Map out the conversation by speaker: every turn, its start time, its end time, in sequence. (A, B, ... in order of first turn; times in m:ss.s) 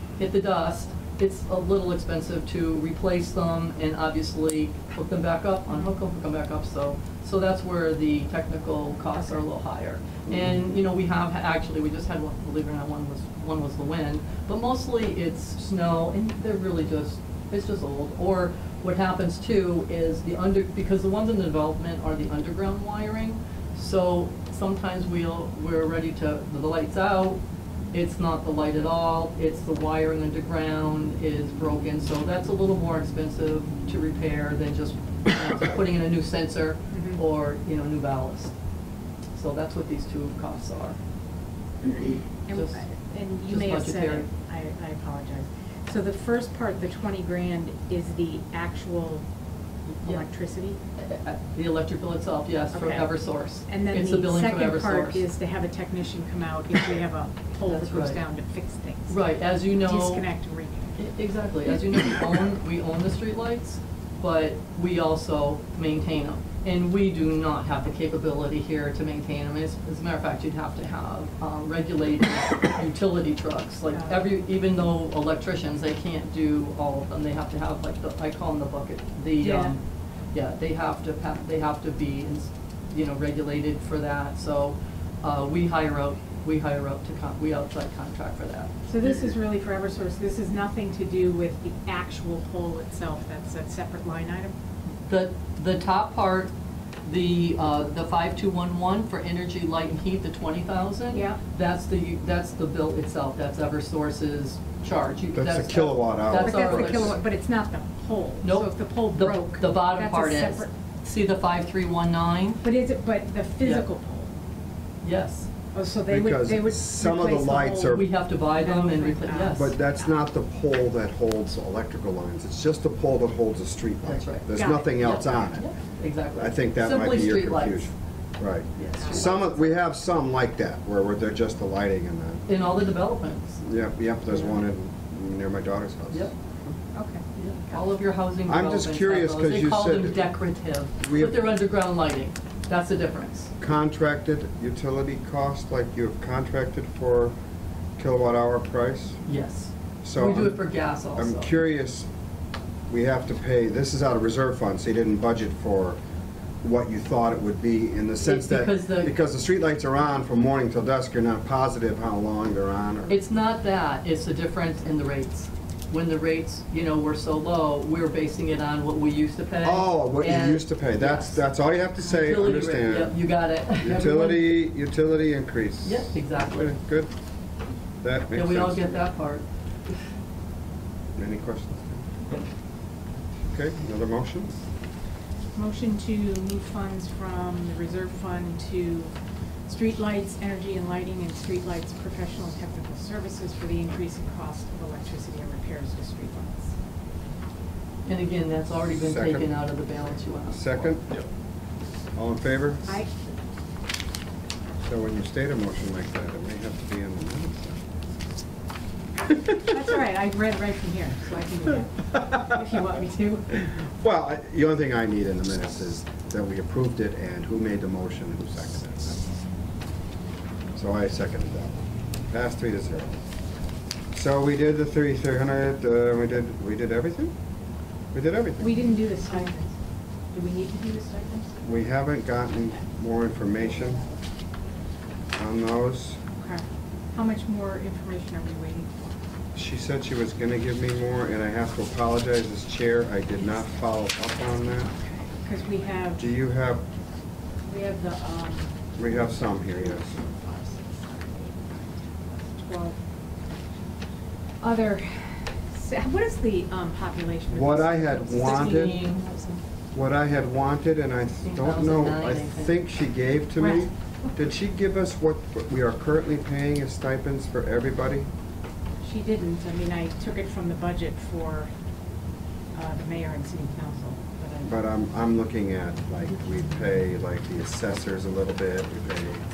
0:00.2-0:27.4 A
0:05.7-0:06.0 B
0:27.9-0:38.5 A
0:36.9-0:37.2 B
0:39.3-0:41.0 A
0:41.9-0:42.9 A
0:42.5-0:49.2 B
0:43.4-0:44.3 A
0:50.0-0:50.3 A
0:50.0-0:50.8 B
0:51.0-0:55.3 A
0:52.7-1:01.0 B
0:57.7-0:58.2 A
0:59.1-1:00.3 A
1:01.0-1:19.8 A
1:13.9-1:14.2 B
1:19.4-1:19.8 B
1:20.3-1:28.7 A
1:28.9-1:34.6 B
1:35.0-1:36.5 A
1:37.0-1:47.2 A
1:41.1-1:41.4 B
1:45.3-1:47.1 C
1:46.4-1:50.7 B
1:48.4-1:52.6 A
1:52.6-1:54.3 B
1:53.6-1:53.9 A
1:55.0-1:55.5 A
1:55.7-2:00.1 B
1:56.1-1:58.0 C
1:57.9-1:59.8 A
1:59.5-2:05.7 C
2:04.0-2:07.9 A
2:04.5-2:05.4 B
2:06.4-2:12.4 C
2:08.8-2:09.2 A
2:09.0-2:09.8 B
2:12.5-2:13.6 A
2:13.6-2:16.7 C
2:14.3-2:14.6 B
2:16.9-2:17.8 B
2:17.4-2:23.5 A
2:18.5-2:20.3 C
2:21.0-2:21.4 C
2:23.6-2:27.3 C
2:28.0-2:29.2 C
2:29.3-2:31.6 A
2:30.0-2:30.6 C
2:31.2-2:32.1 C
2:32.9-2:36.0 C
2:36.6-2:43.1 C
2:38.2-2:39.1 A
2:43.1-2:51.4 A
2:49.6-2:53.2 C
2:52.0-2:54.6 A
2:53.8-2:57.1 C
2:55.8-2:56.7 A
2:58.0-2:59.0 C
2:58.3-3:00.0 A
3:01.2-3:02.1 C
3:03.5-3:04.5 C
3:05.6-3:09.1 B
3:09.7-3:16.8 B
3:18.1-3:21.0 A
3:18.9-3:19.6 C
3:20.5-3:21.1 C
3:22.2-3:23.0 C
3:24.8-3:27.8 C
3:29.5-3:33.7 B
3:34.0-3:39.3 C
3:40.8-3:43.2 C
3:44.1-3:47.3 C
3:48.1-3:48.8 C
3:48.6-3:49.7 B
3:50.3-3:51.8 B
3:51.6-3:54.0 C
3:55.4-3:56.2 C
3:56.4-3:59.1 B
3:59.5-4:04.9 C
4:05.4-4:06.3 B
4:06.2-4:06.8 C
4:07.6-4:13.0 B
4:09.0-4:10.1 C
4:14.6-4:19.6 B
4:17.5-4:19.0 C
4:18.3-4:19.3 A
4:19.9-4:28.3 C
4:21.4-4:22.8 A
4:23.6-4:23.9 B
4:29.0-4:31.7 B
4:32.7-4:34.8 B
4:34.6-4:39.4 C